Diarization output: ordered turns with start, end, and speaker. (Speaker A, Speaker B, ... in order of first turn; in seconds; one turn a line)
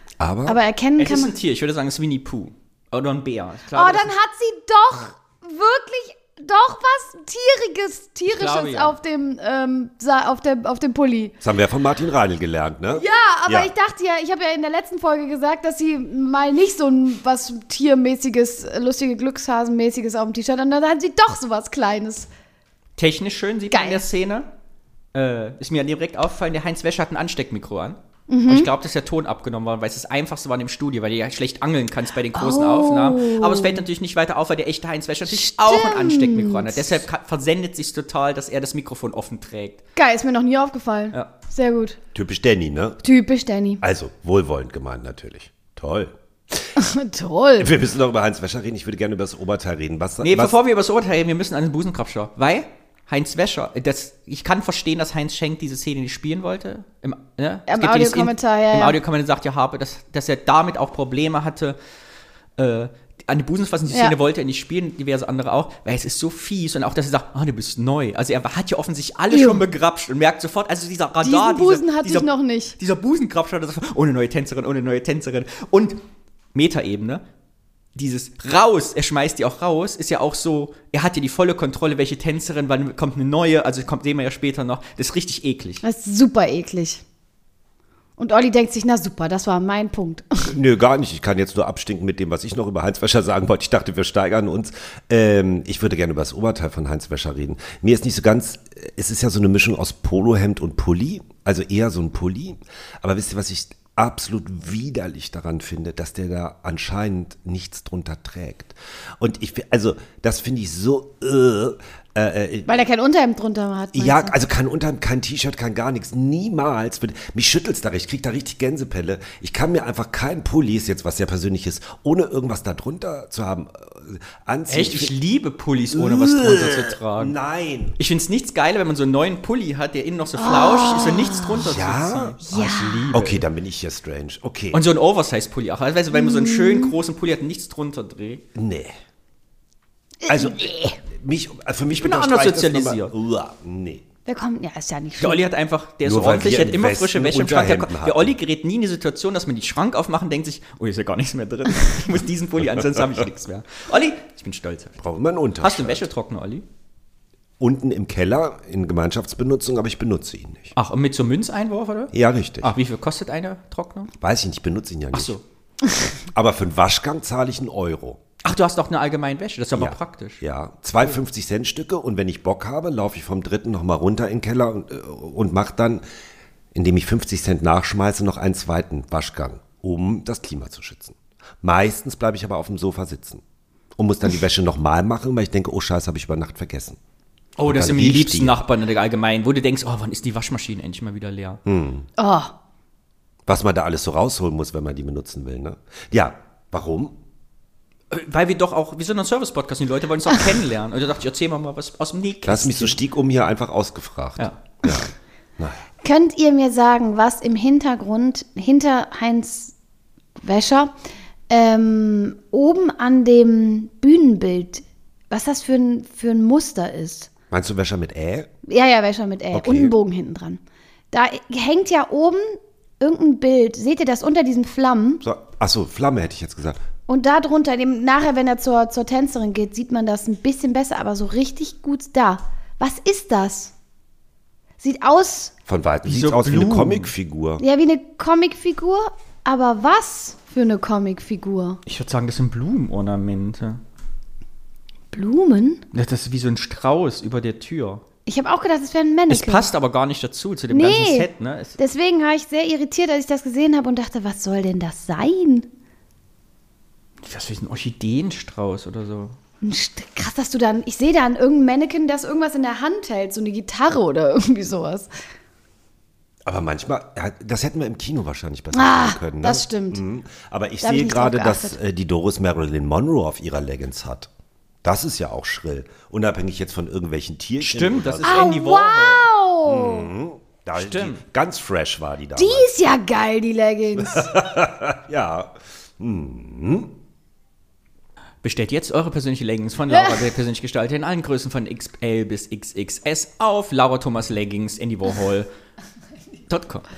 Speaker A: 0.2-0.6
Speaker B: 0.5-1.3
Speaker C: 1.0-4.1
Speaker B: 3.7-11.3
Speaker C: 8.3-8.9
Speaker A: 11.4-13.7
Speaker B: 12.9-22.3
Speaker C: 23.0-24.5
Speaker B: 23.7-24.0
Speaker C: 25.1-39.8
Speaker B: 28.3-28.7
Speaker B: 32.3-33.9
Speaker B: 35.3-37.0
Speaker B: 40.0-42.0
Speaker A: 42.1-43.0
Speaker B: 43.0-43.8
Speaker A: 43.8-46.7
Speaker B: 46.8-47.7
Speaker A: 47.6-50.5
Speaker C: 50.2-61.8
Speaker B: 57.7-59.0
Speaker C: 62.6-76.0
Speaker B: 63.9-64.2
Speaker B: 69.3-69.6
Speaker B: 71.2-72.8
Speaker C: 76.5-77.2
Speaker C: 77.9-85.8
Speaker B: 85.8-87.0
Speaker B: 88.2-90.5
Speaker A: 90.5-112.8
Speaker B: 112.7-114.3
Speaker A: 113.9-125.1
Speaker C: 124.7-127.3
Speaker A: 125.9-128.0
Speaker C: 128.0-133.4
Speaker B: 130.4-131.6
Speaker A: 131.6-132.4
Speaker B: 132.4-133.1
Speaker A: 133.1-134.8
Speaker C: 134.7-138.4
Speaker B: 136.1-136.9
Speaker A: 138.5-138.9
Speaker B: 140.2-140.9
Speaker A: 140.3-144.0
Speaker C: 141.9-143.1
Speaker B: 144.2-145.4
Speaker C: 145.2-155.0
Speaker A: 146.0-148.3
Speaker A: 155.0-156.0
Speaker C: 155.6-156.6
Speaker A: 157.6-160.7
Speaker C: 160.8-164.1
Speaker A: 162.1-162.7
Speaker A: 164.2-165.3
Speaker C: 165.1-165.4
Speaker A: 166.3-168.2
Speaker C: 168.4-170.4
Speaker A: 169.7-176.0
Speaker A: 176.7-183.4
Speaker A: 184.0-187.0
Speaker C: 187.6-191.6
Speaker A: 187.6-188.6
Speaker A: 191.7-192.1
Speaker B: 192.2-192.5
Speaker A: 193.5-197.1
Speaker C: 198.1-203.0
Speaker A: 202.4-205.8
Speaker B: 206.0-209.7
Speaker B: 210.4-210.9
Speaker B: 211.5-217.3
Speaker A: 217.5-218.5
Speaker B: 218.7-225.2
Speaker A: 219.5-219.9
Speaker A: 225.2-226.8
Speaker B: 227.1-233.7
Speaker B: 234.8-235.5
Speaker A: 235.7-237.6
Speaker C: 236.0-237.1
Speaker B: 237.6-241.8
Speaker C: 241.8-243.8
Speaker B: 245.1-245.8
Speaker C: 245.9-248.0
Speaker B: 248.2-249.7
Speaker C: 249.3-251.8
Speaker B: 250.7-255.7
Speaker C: 257.2-259.4
Speaker B: 259.6-265.1
Speaker A: 266.4-274.3
Speaker B: 268.7-270.0
Speaker B: 270.8-271.8
Speaker A: 274.8-278.5
Speaker C: 277.6-279.3
Speaker B: 278.2-280.1
Speaker A: 279.6-282.7
Speaker C: 280.8-281.2
Speaker B: 282.4-284.3
Speaker A: 284.0-286.9
Speaker C: 288.4-295.5
Speaker B: 289.9-290.3
Speaker C: 296.5-296.9